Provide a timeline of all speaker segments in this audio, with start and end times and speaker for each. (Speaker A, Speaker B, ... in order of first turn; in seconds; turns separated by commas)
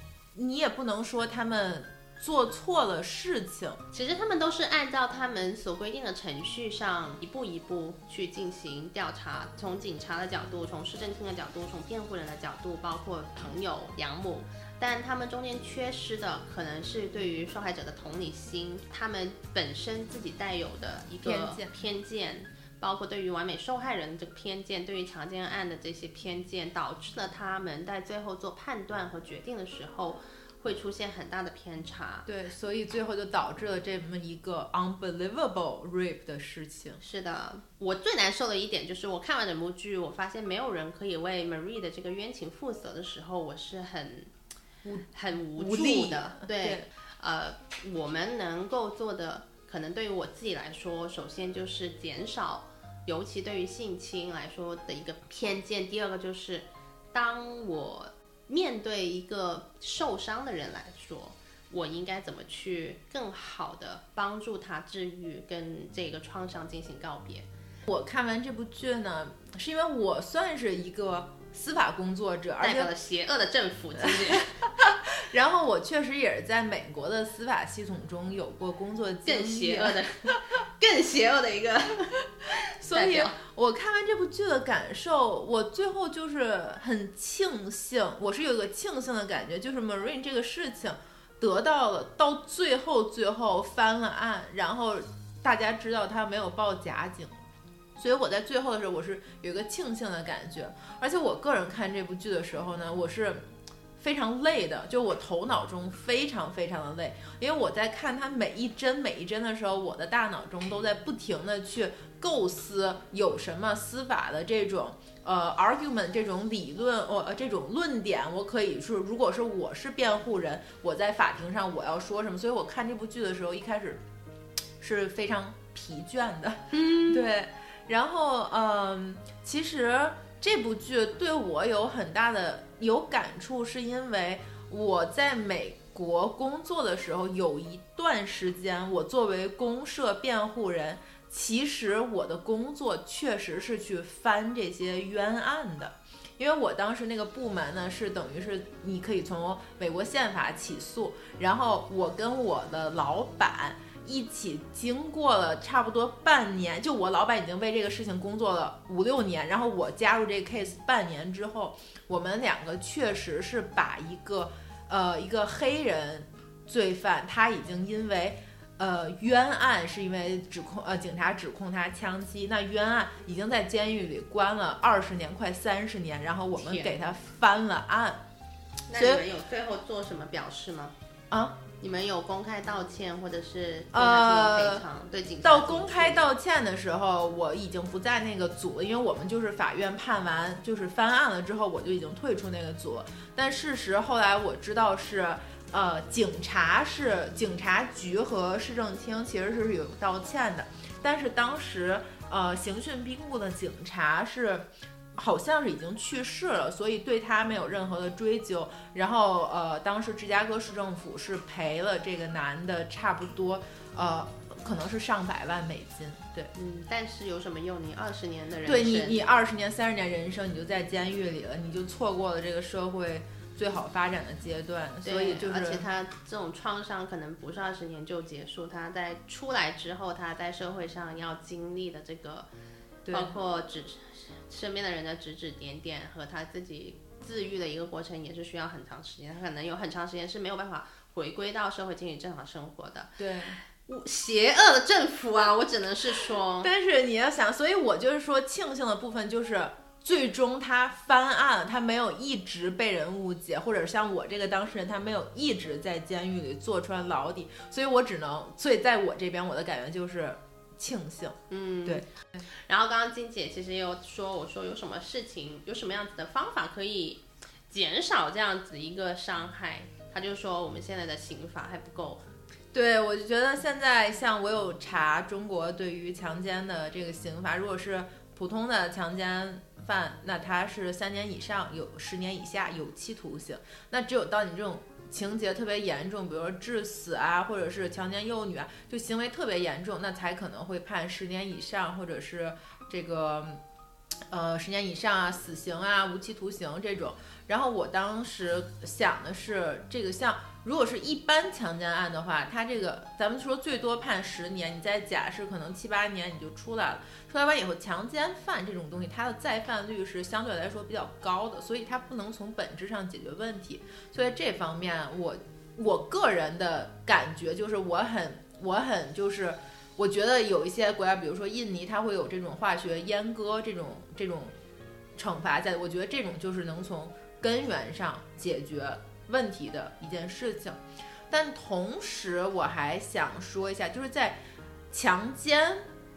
Speaker A: 0.3-3.8, Speaker B: 3.9-32.3, Speaker A: 21.2-21.9, Speaker A: 32.3-37.0, Speaker B: 37.0-44.3, Speaker A: 44.9-46.9, Speaker B: 45.1-67.5, Speaker A: 67.9-72.9, Speaker B: 72.6-74.7, Speaker A: 74.1-80.4, Speaker B: 79.2-83.4, Speaker A: 82.8-97.3, Speaker A: 98.0-103.4, Speaker A: 104.0-124.0, Speaker A: 124.8-178.2, Speaker B: 126.7-127.3, Speaker B: 176.6-177.0, Speaker B: 178.9-180.9, Speaker A: 178.9-179.2, Speaker A: 181.3-181.6, Speaker B: 181.8-186.3, Speaker A: 183.9-184.8, Speaker A: 185.4-216.5, Speaker B: 216.5-219.2, Speaker A: 218.7-225.9, Speaker B: 225.0-232.5, Speaker A: 233.1-233.3, Speaker B: 233.1-246.7, Speaker A: 243.2-243.6, Speaker A: 246.6-262.1, Speaker B: 261.5-272.2, Speaker A: 272.7-293.6, Speaker A: 294.3-324.6, Speaker A: 325.2-334.4, Speaker A: 334.9-335.9